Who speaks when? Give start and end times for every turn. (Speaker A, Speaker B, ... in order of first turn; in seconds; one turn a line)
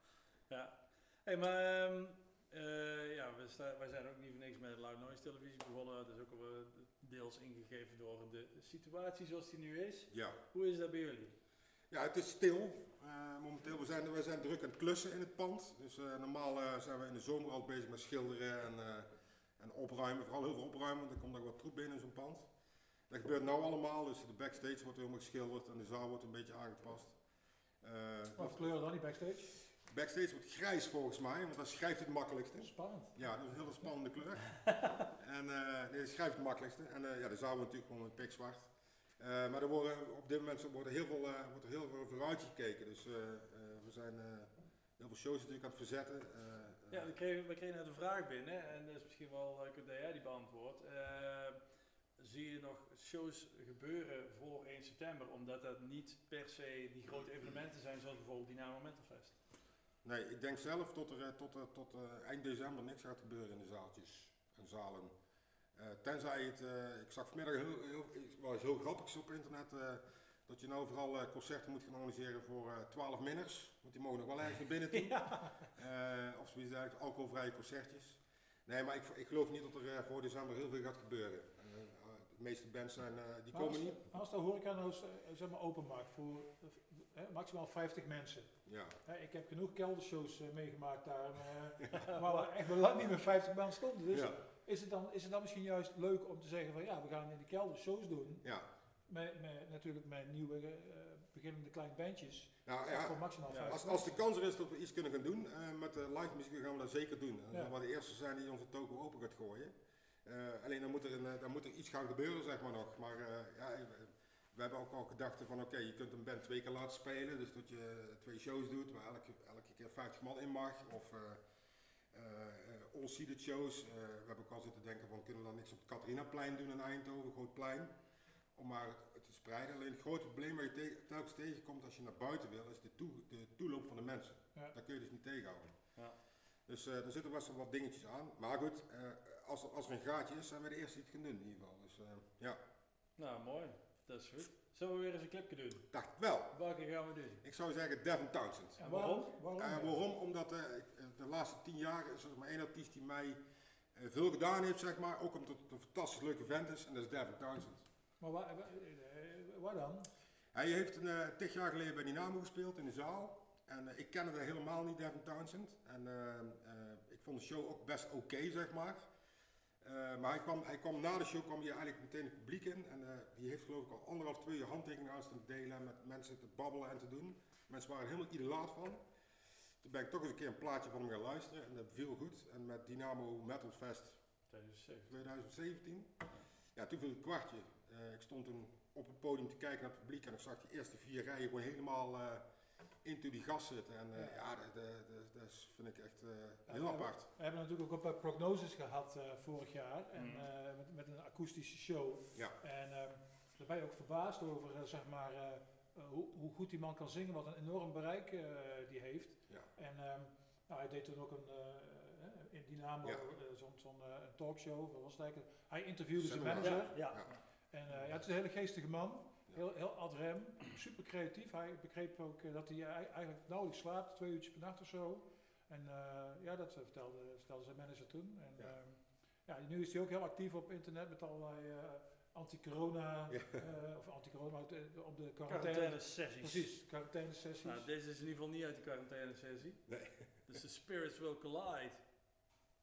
Speaker A: 0.5-11.3
Speaker B: 10.1-10.4
Speaker B: 11.9-22.5
Speaker B: 23.1-27.2
Speaker B: 27.8-28.7
Speaker C: 28.3-29.5
Speaker B: 29.8-47.0
Speaker C: 32.6-33.9
Speaker A: 46.9-51.6
Speaker A: 52.2-59.4
Speaker B: 60.0-65.1
Speaker B: 65.8-84.0
Speaker C: 83.5-98.4
Speaker B: 88.7-89.0
Speaker A: 91.9-92.5
Speaker B: 94.1-94.4
Speaker C: 99.1-104.2
Speaker B: 102.7-109.7
Speaker B: 110.2-121.4
Speaker B: 122.1-127.9
Speaker B: 128.5-135.7
Speaker B: 136.7-142.6
Speaker A: 143.2-145.9
Speaker B: 145.9-146.6
Speaker A: 146.5-147.4
Speaker B: 147.4-148.8
Speaker C: 148.8-150.0
Speaker A: 148.8-149.4
Speaker B: 149.4-153.4
Speaker B: 153.9-157.8
Speaker C: 158.2-160.1
Speaker B: 160.5-169.1
Speaker B: 169.8-179.0
Speaker B: 179.8-184.2
Speaker A: 184.5-185.1
Speaker B: 185.1-186.2
Speaker B: 186.7-192.4
Speaker B: 193.0-197.3
Speaker C: 194.1-194.4
Speaker C: 196.7-237.9
Speaker A: 200.1-200.4
Speaker B: 213.0-213.3
Speaker B: 216.2-217.3
Speaker A: 216.6-217.2
Speaker B: 233.3-233.6
Speaker A: 235.5-236.8
Speaker A: 237.6-239.8
Speaker B: 239.9-240.3
Speaker A: 240.5-242.0